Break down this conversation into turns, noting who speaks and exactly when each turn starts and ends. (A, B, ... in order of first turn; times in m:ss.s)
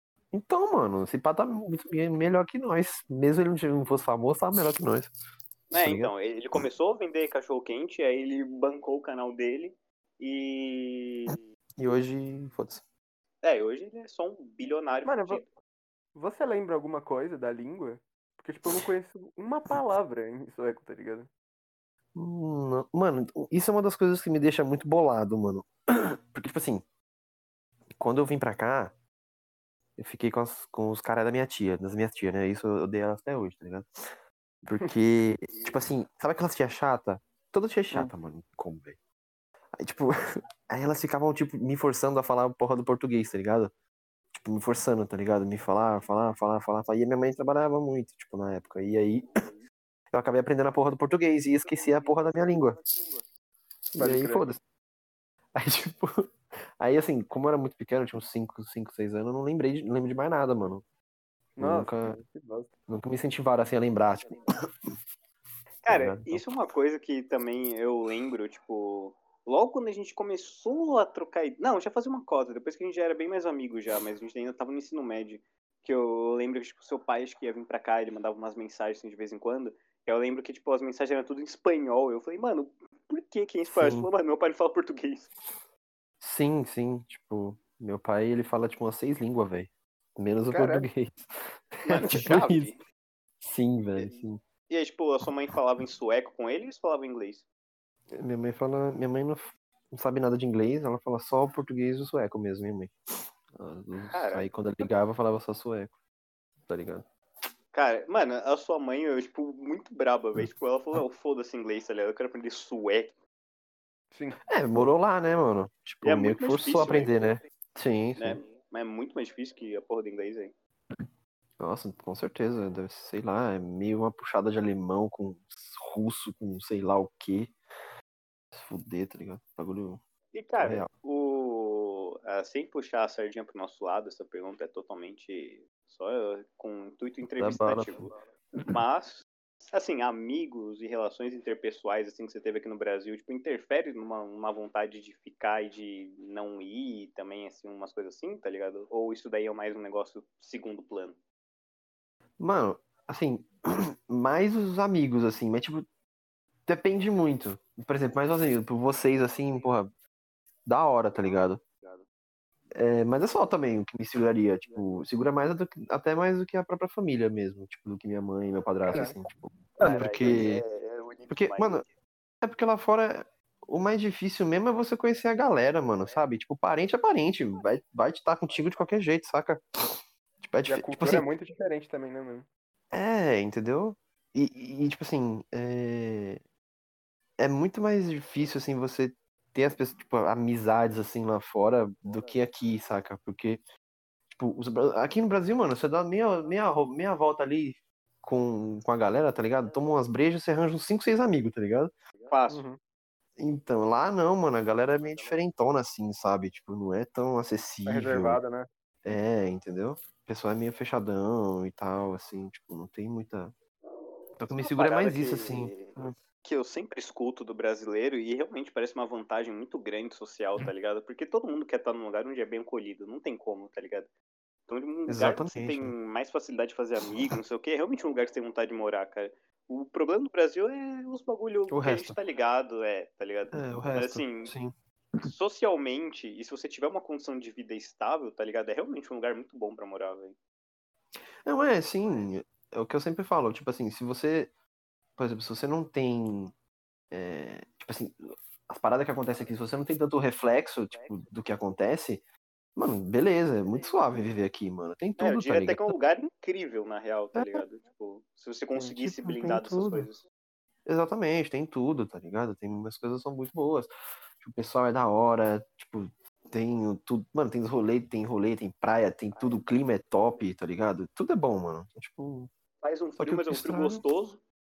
0:00.3-0:05.1 A
0:05.7-0:11.4 B
0:05.8-0:06.1 A
0:11.8-0:12.8 A
0:13.4-0:15.5 B
0:15.0-0:15.4 C
0:16.2-0:21.3 C
0:22.2-0:26.8 A
0:28.0-0:29.0 A
0:30.0-0:33.9 A
0:34.6-0:39.0 A
0:39.8-0:40.2 A
0:40.7-0:43.7 A
0:44.3-0:49.3 A
0:50.1-0:52.8 A
0:54.0-0:54.6 A
0:54.0-0:54.5 C
0:55.6-0:56.1 A
0:56.8-1:00.8 A
1:01.6-1:02.7 C
1:01.6-1:02.2 A
1:02.9-1:04.4 A
1:05.8-1:25.3 B
1:05.9-1:06.4 A
1:23.7-1:24.1 A
1:26.2-1:32.7 A
1:30.5-1:30.8 C
1:31.9-1:32.8 B
1:33.4-1:34.4 A
1:34.0-1:37.5 B
1:38.1-1:42.9 A
1:43.6-1:45.9 A
1:44.1-1:44.5 B
1:46.7-1:47.1 A
1:47.7-1:53.2 B
1:50.4-1:51.0 A
1:54.1-1:54.4 C
1:54.5-1:58.4 A
1:56.0-1:57.2 B
1:58.2-2:00.5 B
2:01.6-2:07.6 A
2:08.5-2:10.0 A
2:10.3-2:31.2 B
2:10.6-2:10.9 A
2:17.4-2:18.1 A
2:32.4-2:35.8 A
2:36.7-2:39.9 A
2:40.7-2:41.6 A
2:42.8-2:50.6 A
2:48.9-2:49.2 C
2:49.8-2:51.9 B
2:51.3-2:51.8 A
2:52.4-2:59.6 A
3:00.4-3:01.3 A
3:00.7-3:02.5 C
3:02.9-3:06.4 A
3:07.4-3:13.6 A
3:14.3-3:21.9 A
3:22.3-3:22.6 B
3:22.5-3:22.8 C
3:23.4-3:28.4 A
3:27.9-3:28.7 C
3:29.0-3:33.5 A
3:34.4-3:36.1 A
3:34.6-3:44.1 B
3:44.7-3:54.5 B
3:45.1-3:45.9 A
3:51.7-3:52.2 A
3:53.5-3:55.3 A
3:55.2-4:00.4 B
4:01.4-4:04.5 A
4:05.2-4:06.5 A
4:07.1-4:12.2 A
4:10.9-4:11.2 B
4:12.8-4:16.0 A
4:15.2-4:20.2 B
4:17.4-4:17.6 A
4:18.8-4:20.1 A
4:20.9-4:32.5 A
4:29.3-4:29.7 B
4:32.8-4:34.4 B
4:33.2-4:34.0 A